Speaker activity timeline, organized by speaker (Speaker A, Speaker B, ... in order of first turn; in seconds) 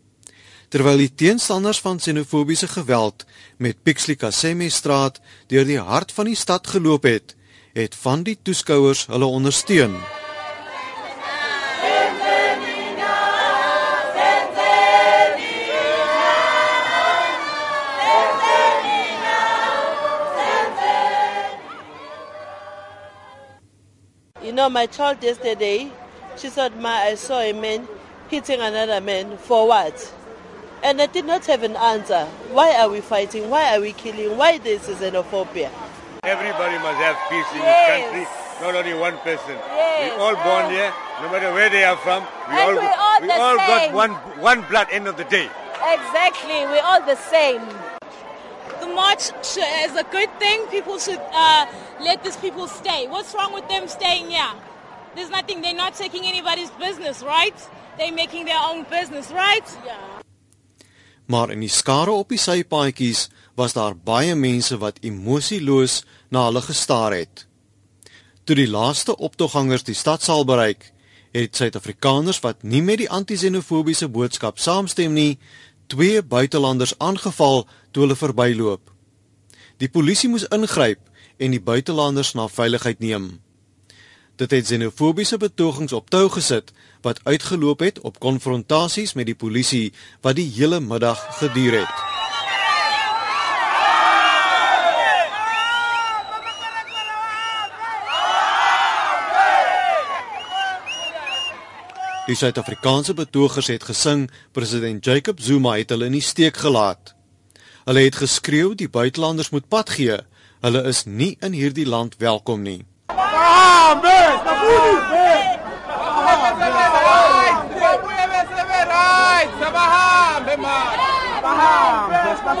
Speaker A: 0.7-10.1, 61.3-67.5, 68.5-78.9, 79.8-83.4, 84.4-92.0, 102.2-107.1, 107.8-112.8
Speaker B: 24.4-30.1, 30.8-35.7
Speaker C: 36.2-45.5
Speaker D: 37.6-38.1, 39.7-40.8, 42.5-43.3, 45.8-47.9
Speaker E: 42.9-43.9, 48.8-54.6, 55.1-60.0